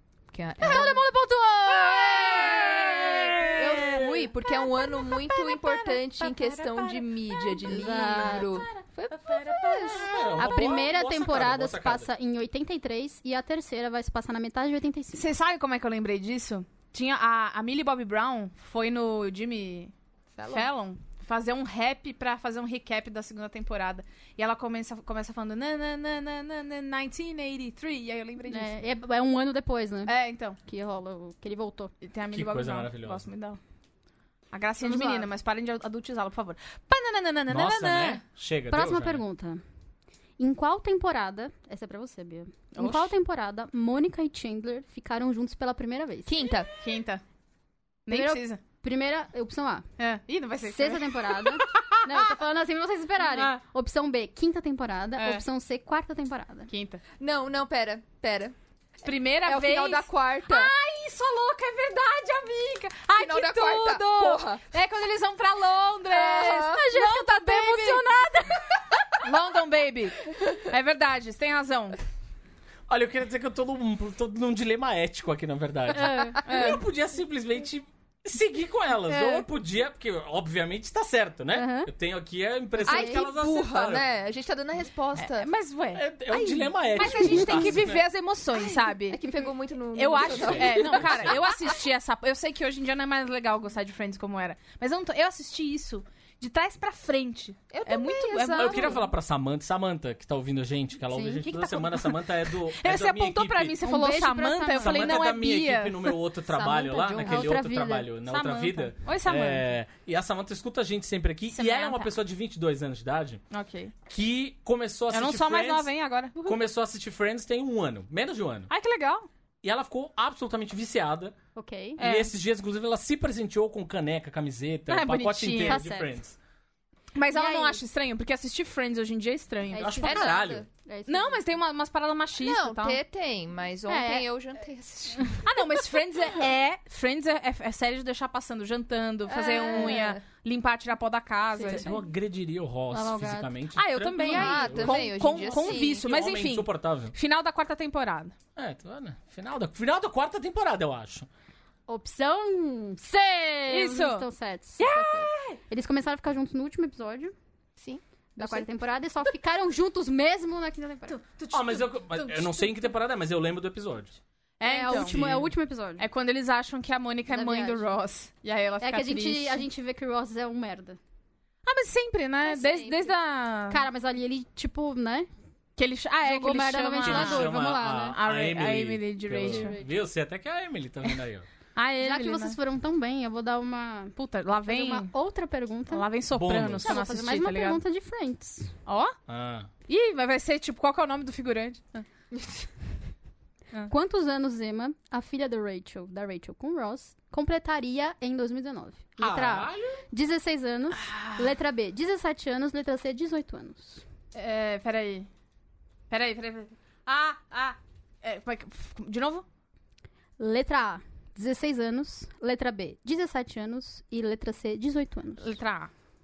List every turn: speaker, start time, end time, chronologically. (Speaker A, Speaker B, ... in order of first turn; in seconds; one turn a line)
Speaker A: 0.3-1.1
Speaker B: 0.6-1.1
Speaker C: 0.6-3.5
Speaker B: 1.7-10.3
Speaker A: 3.5-10.1
Speaker C: 7.6-8.7
Speaker D: 9.9-12.1
Speaker C: 10.4-15.3
Speaker B: 15.1-19.9
Speaker A: 20.3-20.7
Speaker B: 20.4-28.8
Speaker C: 28.5-31.9
Speaker B: 30.1-30.6
Speaker B: 32.0-33.6
Speaker D: 32.3-33.2
Speaker B: 34.5-38.2
Speaker C: 34.8-35.3
Speaker D: 37.5-39.2
Speaker C: 38.7-39.6
Speaker C: 40.4-46.4
Speaker B: 42.7-43.1
Speaker A: 46.3-46.7
Speaker B: 46.8-47.2
Speaker B: 48.1-48.6
Speaker C: 48.1-49.9
Speaker B: 50.0-52.2
Speaker C: 50.6-56.7
Speaker B: 53.2-53.6
Speaker B: 55.2-55.4
Speaker B: 56.7-57.0
Speaker A: 57.2-58.5
Speaker B: 59.0-68.1
Speaker A: 59.4-60.7
Speaker A: 63.1-64.6
Speaker C: 66.1-68.9
Speaker A: 66.3-66.8
Speaker B: 69.2-72.0
Speaker D: 72.9-84.0
Speaker C: 75.9-76.4
Speaker B: 76.4-76.8
Speaker B: 79.1-79.5
Speaker C: 81.5-81.9
Speaker C: 82.8-83.3
Speaker A: 82.8-85.5
Speaker B: 85.2-86.0
Speaker D: 85.9-88.0
Speaker A: 86.3-87.7
Speaker B: 86.9-89.2
Speaker A: 88.6-91.7
Speaker B: 89.9-99.0
Speaker D: 90.2-91.4
Speaker A: 97.7-99.0
Speaker D: 98.5-103.8
Speaker C: 101.1-101.8
Speaker B: 101.7-106.2
Speaker C: 103.8-105.2
Speaker D: 104.8-113.4
Speaker C: 106.5-108.1
Speaker B: 108.2-109.7
Speaker B: 111.5-112.1
Speaker B: 113.5-113.9
Speaker D: 114.0-118.7
Speaker B: 115.1-116.6
Speaker B: 118.7-119.3
Speaker D: 119.6-121.3
Speaker C: 121.5-122.0
Speaker B: 122.0-122.3
Speaker D: 122.0-126.3
Speaker B: 124.9-125.8
Speaker C: 125.6-126.1
Speaker B: 127.1-130.1
Speaker C: 127.3-127.8
Speaker C: 129.7-131.4
Speaker D: 129.8-130.6
Speaker A: 129.8-130.7
Speaker B: 131.1-133.0
Speaker A: 132.4-135.5
Speaker C: 133.9-134.2
Speaker B: 135.4-142.0
Speaker A: 139.3-140.2
Speaker C: 139.6-140.1
Speaker D: 141.6-147.1
Speaker C: 142.9-143.5
Speaker B: 143.7-148.3
Speaker C: 144.2-145.0
Speaker A: 144.2-146.1
Speaker D: 148.6-151.3
Speaker C: 151.9-157.3
Speaker B: 153.7-154.2
Speaker B: 154.8-155.6
Speaker A: 157.8-158.6
Speaker C: 158.4-161.2
Speaker B: 161.1-162.7
Speaker D: 161.5-164.2
Speaker B: 164.6-165.2
Speaker C: 164.6-166.1
Speaker D: 164.9-165.5
Speaker B: 166.0-169.6
Speaker C: 167.3-167.9
Speaker C: 168.8-171.0
Speaker B: 171.6-173.8
Speaker A: 172.5-173.1
Speaker C: 173.7-175.3
Speaker B: 175.8-179.8
Speaker C: 176.2-178.2
Speaker D: 177.0-181.5
Speaker C: 179.4-179.9
Speaker B: 181.8-182.6
Speaker C: 182.0-184.1
Speaker B: 184.2-185.1
Speaker C: 184.7-186.1
Speaker B: 185.9-187.8
Speaker D: 186.3-187.0
Speaker C: 186.8-188.7
Speaker B: 188.8-189.2
Speaker D: 189.3-189.7
Speaker B: 189.9-192.1
Speaker C: 193.9-204.0
Speaker D: 199.2-200.0
Speaker B: 200.9-201.5
Speaker B: 204.3-205.3
Speaker B: 206.1-209.4
Speaker C: 210.4-215.6
Speaker B: 215.4-215.9